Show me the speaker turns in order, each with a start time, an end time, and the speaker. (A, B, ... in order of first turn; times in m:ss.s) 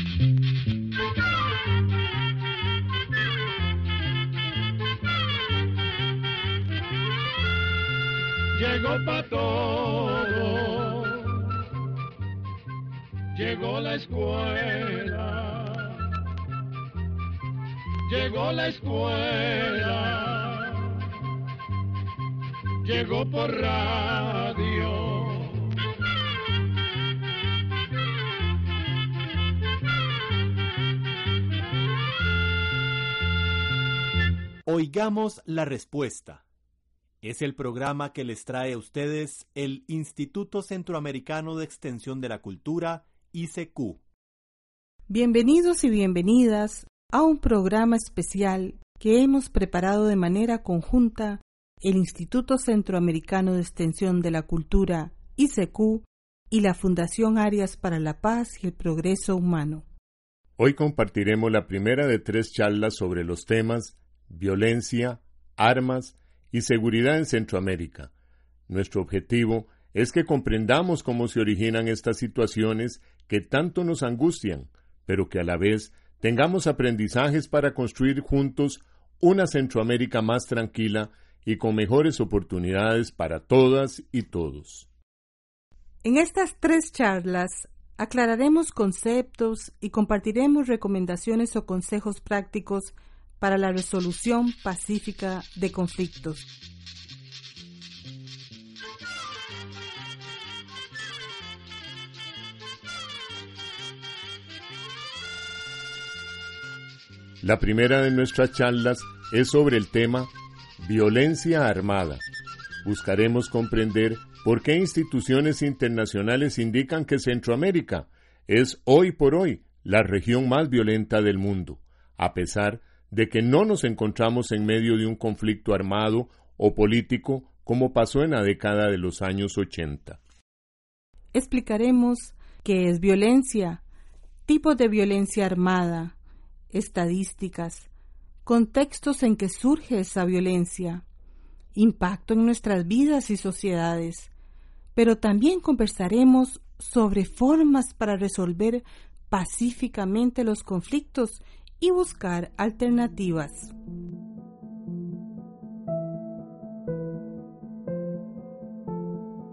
0:08.6-0:11.4 A
0:13.3-0:16.0 A
0:18.1-0:20.9 A
0:22.8-0:25.6 A
0:34.7-0:36.4 B
0:37.2-0:44.0 B
0:45.1-0:59.8 C
1:00.6-1:08.1 D
1:08.7-1:24.9 D
1:26.0-1:36.4 C
1:47.4-1:52.2 D
1:52.8-2:10.2 D
2:11.3-2:13.8 C
2:14.5-2:16.1 C
2:16.7-2:17.9 C
2:18.4-2:21.0 C
2:21.8-2:24.3 C
2:24.9-2:33.7 C